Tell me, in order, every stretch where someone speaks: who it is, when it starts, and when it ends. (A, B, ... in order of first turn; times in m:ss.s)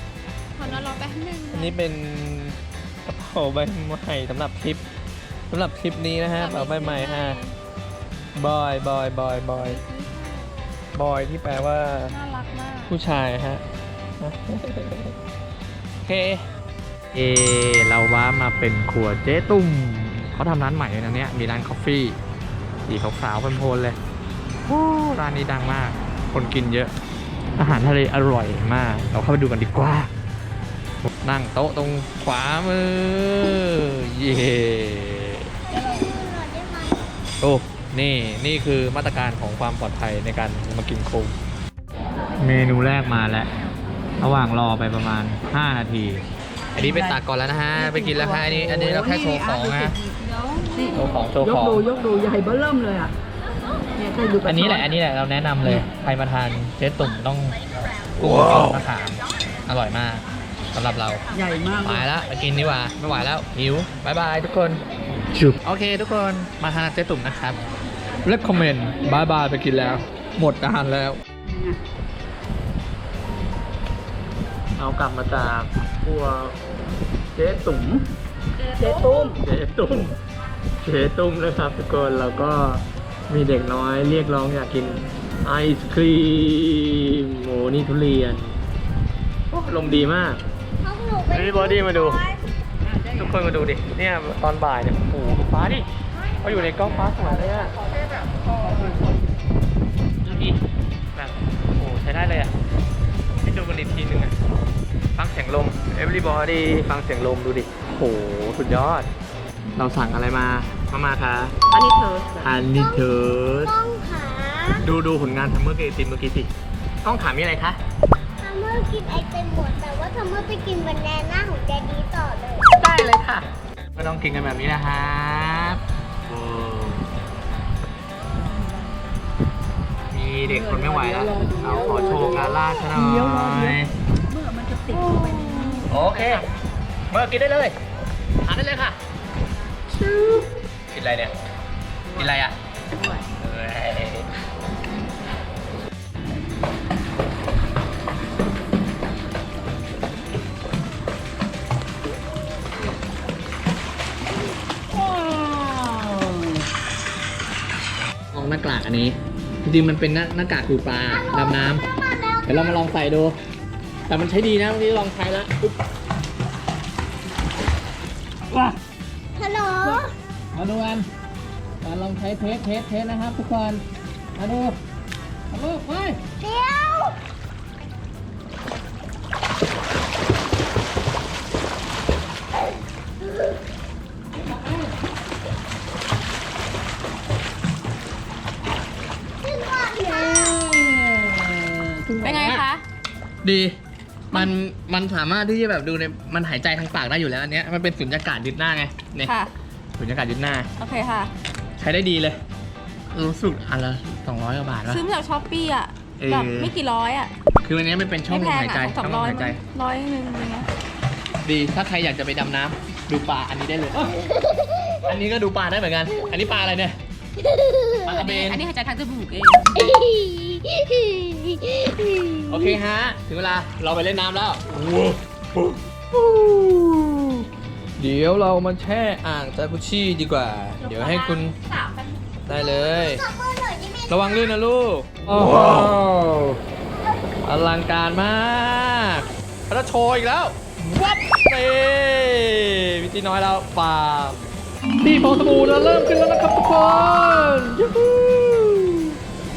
0:00.6-0:01.8 A
0:01.5-0:04.8 B
0:05.5-0:07.4 B
0:06.3-0:07.6 A
0:08.3-0:09.8 B
0:09.6-0:10.5 A
0:10.9-0:12.2 B
0:12.1-0:13.0 A
0:12.8-0:13.6 B
0:14.2-0:15.2 B
0:16.0-0:16.4 B
0:17.1-0:22.2 B
0:22.9-0:24.0 B
0:24.6-0:26.9 B
0:27.6-0:30.1 B
0:31.0-0:35.5 B
0:35.7-0:37.1 C
0:35.7-0:36.1 A
0:37.4-0:41.3 B
0:42.4-0:43.5 B
0:44.2-0:50.0 B
0:46.8-0:47.2 D
0:47.7-0:53.1 D
0:50.9-0:51.9 B
0:54.0-0:54.9 D
0:54.4-0:57.6 B
0:58.2-1:01.2 B
1:01.3-1:02.0 D
1:01.8-1:07.6 B
1:08.2-1:11.2 B
1:11.5-1:11.8 D
1:14.8-1:16.6 B
1:17.3-1:18.0 B
1:18.6-1:19.4 A
1:18.8-1:19.4 D
1:19.4-1:20.2 B
1:20.8-1:28.6 B
1:29.5-1:30.4 B
1:30.8-1:32.4 C
1:31.3-1:32.3 B
1:33.1-1:35.9 B
1:36.1-1:39.2 A
1:36.4-1:37.7 B
1:40.2-1:40.6 B
1:41.1-1:42.5 B
1:43.4-1:44.3 B
1:45.2-1:49.1 B
1:49.8-1:51.8 B
1:51.7-1:52.5 A
1:52.4-1:53.7 B
1:52.6-1:53.1 C
1:53.6-1:54.9 C
1:54.8-1:56.5 B
1:57.0-1:57.8 B
1:58.4-2:02.8 C
2:02.8-2:07.1 B
2:10.1-2:13.9 B
2:10.4-2:16.4 D
2:14.9-2:16.5 B
2:17.1-2:17.8 B
2:18.4-2:19.0 B
2:20.0-2:21.3 B
2:22.1-2:22.4 D
2:22.1-2:22.6 B
2:22.9-2:23.2 D
2:23.4-2:24.3 B
2:38.3-2:41.8 B
2:41.1-2:42.8 C
2:42.4-2:43.4 B
2:44.1-2:45.8 B
2:48.5-2:48.8 B
2:49.4-2:50.1 C
2:49.8-2:51.1 B
2:51.8-2:53.8 B
2:54.4-2:54.8 B
2:55.5-2:56.2 B
2:56.4-2:57.2 C
3:09.4-3:10.6 C
3:10.1-3:12.6 B
3:12.2-3:12.8 A
3:13.4-3:13.8 B
3:14.3-3:19.3 B
3:19.2-3:19.5 A
3:20.0-3:20.7 B
3:20.8-3:21.3 A
3:21.8-3:22.4 B
3:23.1-3:25.0 B
3:24.9-3:27.3 A
3:26.2-3:26.8 B
3:27.6-3:29.6 B
3:28.3-3:30.7 A
3:31.4-3:34.2 B
3:34.5-3:35.0 C
3:35.0-3:37.0 B
3:37.4-3:38.0 C
3:38.0-3:38.6 B
3:38.1-3:39.9 A
3:39.9-3:42.4 C
3:42.5-3:47.5 B
3:48.0-3:51.5 B
3:50.8-3:52.4 A
3:52.4-3:53.2 B
3:52.5-3:54.6 C
3:54.1-3:56.6 B
3:57.4-4:04.5 B
4:05.0-4:09.2 B